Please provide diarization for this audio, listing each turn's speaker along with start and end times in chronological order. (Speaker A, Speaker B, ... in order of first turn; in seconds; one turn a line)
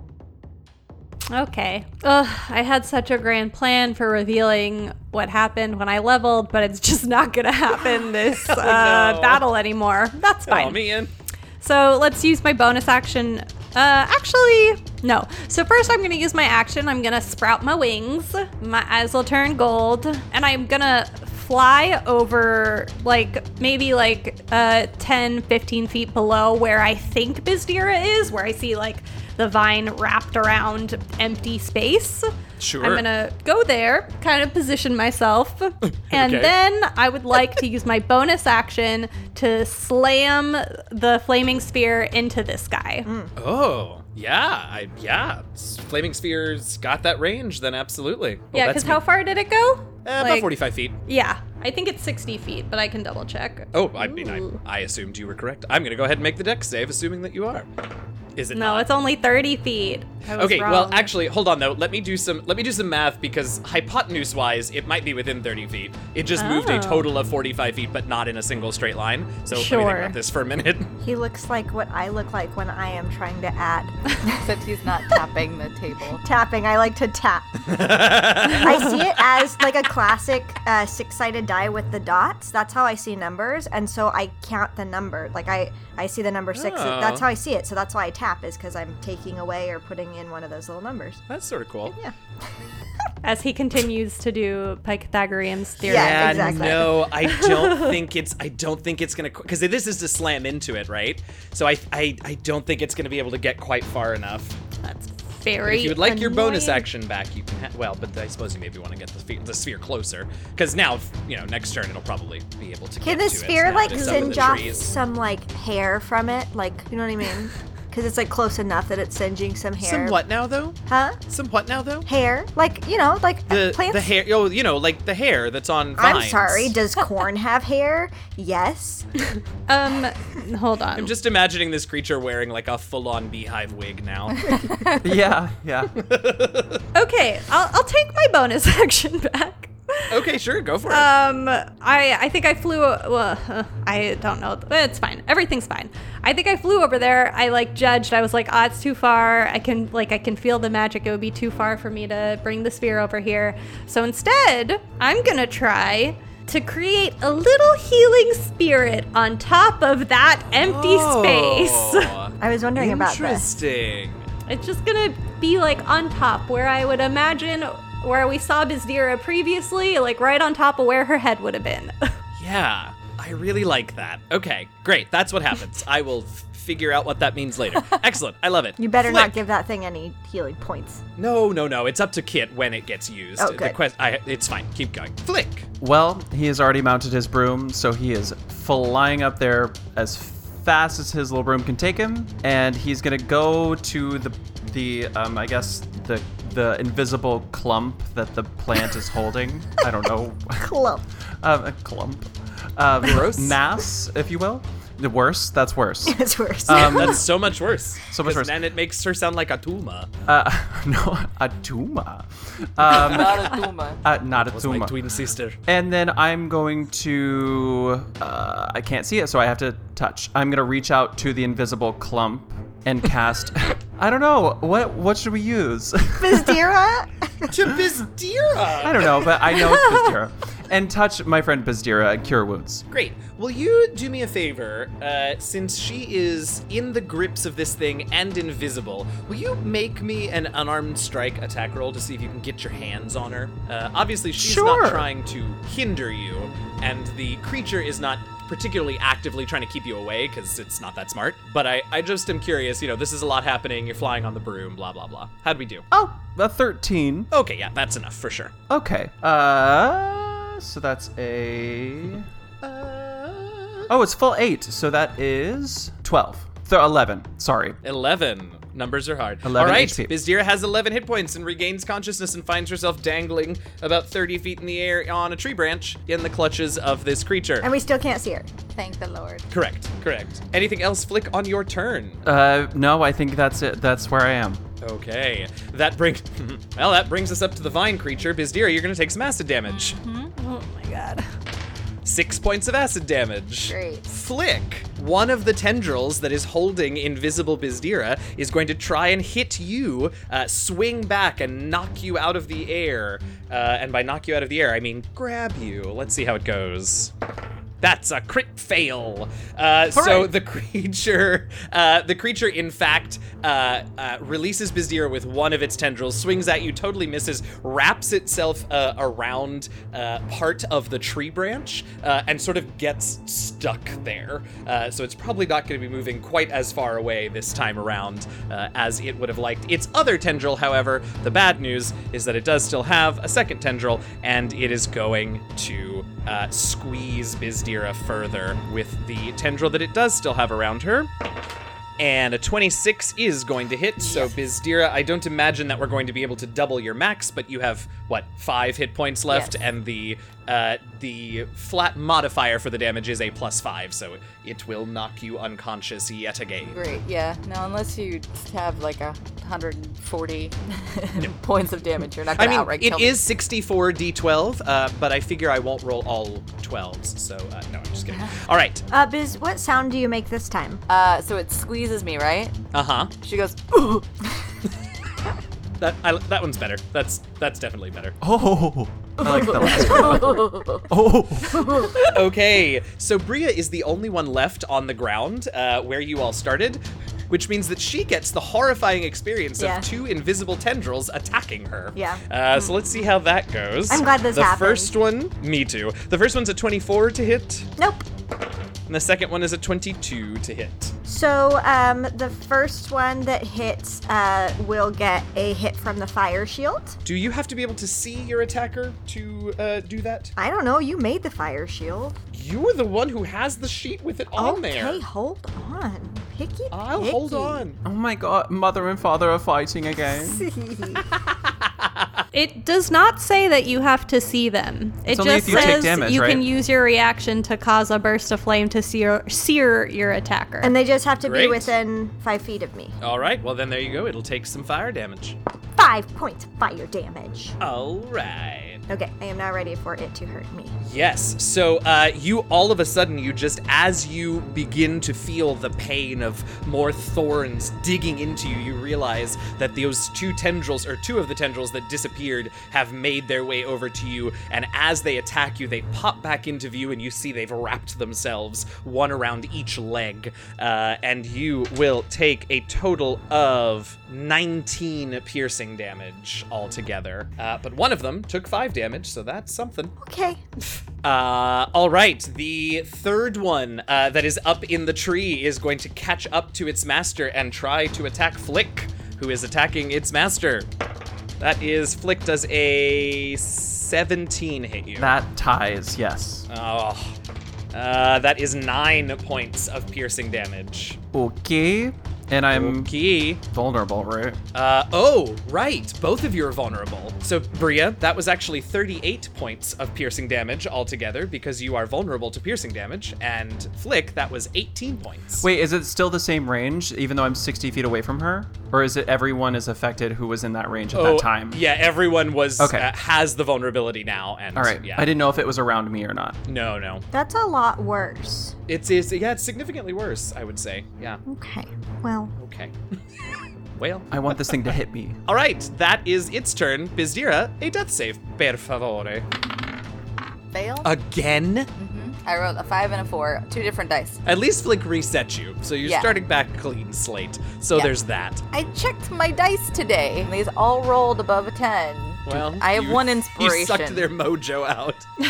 Speaker A: 1.3-10.8
Speaker B: 8.3-9.4
Speaker B: 10.4-11.1
Speaker A: 11.6-43.1
Speaker B: 32.6-33.0
Speaker B: 35.9-36.5
Speaker C: 43.0-43.3
Speaker B: 43.4-49.0
Speaker A: 48.5-50.5
Speaker B: 50.0-51.0
Speaker A: 51.0-54.6
Speaker B: 53.7-57.7
Speaker B: 58.4-58.9
Speaker A: 58.5-61.1
Speaker B: 60.4-70.9
Speaker A: 66.4-67.1
Speaker A: 69.5-70.2
Speaker C: 71.0-74.5
Speaker D: 74.4-76.2
Speaker C: 76.2-91.2
Speaker B: 77.7-79.0
Speaker B: 86.5-87.3
Speaker B: 91.3-92.0
Speaker C: 91.9-92.1
Speaker A: 93.2-98.0
Speaker C: 95.8-97.0
Speaker B: 95.8-104.6
Speaker A: 104.8-106.8
Speaker B: 105.6-114.9
Speaker C: 113.0-120.2
Speaker A: 113.9-114.7
Speaker B: 119.8-122.1
Speaker C: 120.9-121.2
Speaker C: 122.0-124.1
Speaker B: 123.5-126.8
Speaker C: 126.0-129.1
Speaker A: 129.7-131.1
Speaker B: 130.9-134.6
Speaker E: 135.0-135.9
Speaker B: 135.9-136.8
Speaker A: 136.9-140.3
Speaker B: 140.1-141.1
Speaker A: 140.9-162.2
Speaker B: 160.6-164.3
Speaker C: 162.4-163.5
Speaker A: 164.5-172.1
Speaker B: 172.4-179.4
Speaker C: 178.8-181.0
Speaker B: 181.2-185.7
Speaker C: 183.4-183.8
Speaker E: 185.8-200.7
Speaker C: 200.6-201.0
Speaker E: 201.4-207.3
Speaker B: 203.0-203.6
Speaker C: 206.1-207.2
Speaker B: 206.7-210.1
Speaker E: 208.1-208.5
Speaker E: 210.3-215.0
Speaker D: 212.8-214.0
Speaker B: 214.3-215.6
Speaker E: 215.7-226.6
Speaker C: 226.2-227.5
Speaker B: 227.5-229.3
Speaker E: 228.8-232.8
Speaker A: 229.7-230.1
Speaker B: 232.9-255.8
Speaker E: 244.4-245.1
Speaker E: 255.9-257.3
Speaker B: 257.3-258.5
Speaker E: 258.7-262.3
Speaker B: 262.6-263.9
Speaker E: 263.9-267.8
Speaker B: 267.8-277.7
Speaker E: 269.4-270.1
Speaker C: 277.6-278.5
Speaker D: 278.8-279.5
Speaker B: 279.5-282.2
Speaker E: 282.2-284.6
Speaker B: 284.8-290.0
Speaker A: 289.7-291.3
Speaker B: 292.0-307.1
Speaker D: 293.6-294.1
Speaker B: 307.8-341.1
Speaker D: 309.9-310.3
Speaker B: 342.0-356.8
Speaker D: 344.0-344.3
Speaker D: 349.3-349.6
Speaker D: 356.6-363.2
Speaker B: 362.4-368.8
Speaker C: 368.9-370.8
Speaker D: 370.9-372.6
Speaker B: 372.7-373.1
Speaker D: 373.2-374.1
Speaker B: 375.8-378.2
Speaker E: 378.2-381.9
Speaker C: 379.7-380.2
Speaker D: 379.7-380.8
Speaker B: 382.0-397.7
Speaker C: 389.6-389.8
Speaker C: 391.9-392.2
Speaker C: 393.9-394.9
Speaker C: 397.8-398.1
Speaker B: 398.9-400.9
Speaker C: 401.1-407.0
Speaker B: 407.0-410.3
Speaker C: 410.4-412.1
Speaker B: 412.3-415.0
Speaker C: 414.4-417.6
Speaker B: 416.7-417.8
Speaker E: 417.8-420.5
Speaker C: 420.2-421.1
Speaker B: 421.1-422.2
Speaker A: 422.3-430.8
Speaker E: 425.1-426.4
Speaker B: 425.4-425.9
Speaker C: 430.6-432.9
Speaker B: 431.2-431.7
Speaker B: 433.0-435.4
Speaker C: 435.8-437.6
Speaker B: 437.6-438.8
Speaker C: 438.9-440.7
Speaker B: 440.8-469.9
Speaker C: 470.0-470.4
Speaker B: 471.0-480.7
Speaker B: 481.4-485.1
Speaker E: 485.0-486.4
Speaker B: 486.5-487.1
Speaker B: 487.7-491.0
Speaker E: 491.1-494.4
Speaker B: 492.5-493.4
Speaker B: 494.5-505.4
Speaker E: 505.4-511.6
Speaker B: 510.9-515.1
Speaker E: 512.6-512.9
Speaker E: 514.5-516.4
Speaker B: 516.5-517.0
Speaker C: 517.1-518.5
Speaker B: 518.7-521.2
Speaker C: 521.2-522.3
Speaker B: 522.4-522.7
Speaker B: 523.7-524.7
Speaker E: 524.1-525.2
Speaker B: 525.2-529.2
Speaker D: 530.5-530.9
Speaker B: 530.8-531.7
Speaker D: 531.8-534.2
Speaker B: 534.2-538.4
Speaker D: 535.8-536.2
Speaker D: 538.5-544.1
Speaker B: 542.2-545.1